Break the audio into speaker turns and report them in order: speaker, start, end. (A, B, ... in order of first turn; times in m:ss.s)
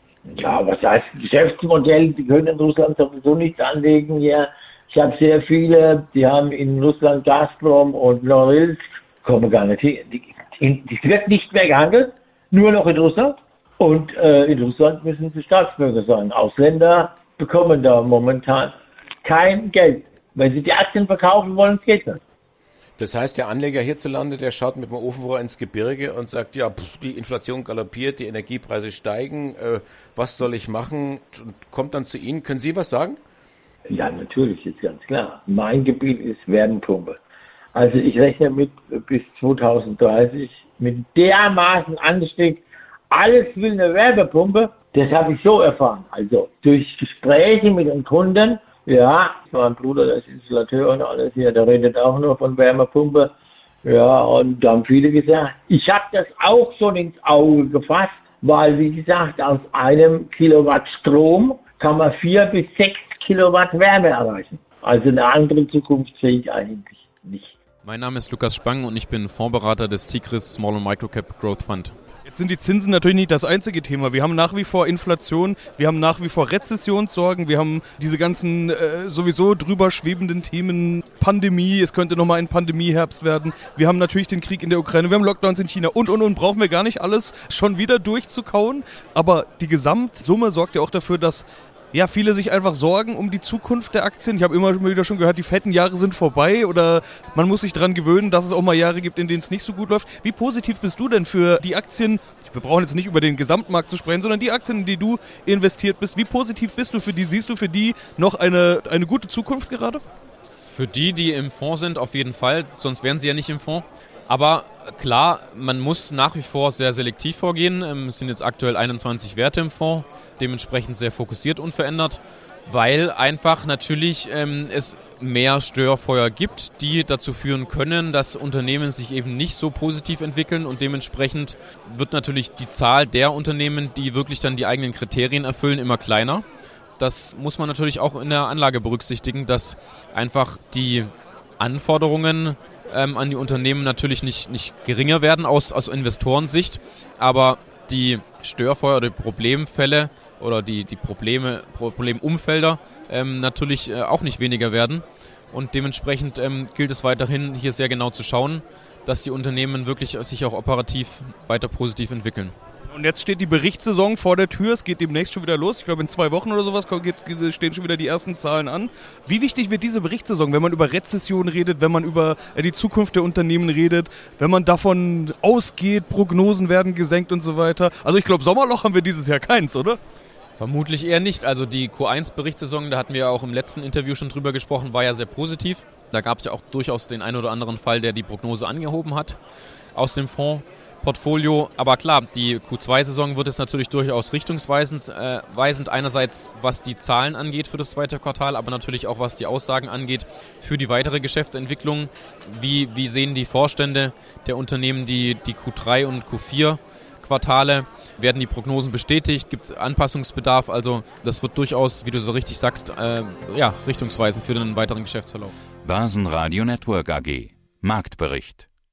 0:00.3-0:22.2 A
0:23.0-0:33.2 B
0:33.9-0:37.2 A
0:37.7-0:53.3 A
0:53.8-1:07.5 A
1:07.8-1:12.0 C
1:12.3-1:50.0 D
1:50.6-2:16.5 C
2:17.0-2:42.6 C
2:42.9-3:00.0 D
3:00.6-3:09.4 C
3:09.9-3:35.6 C
3:35.9-3:38.6 E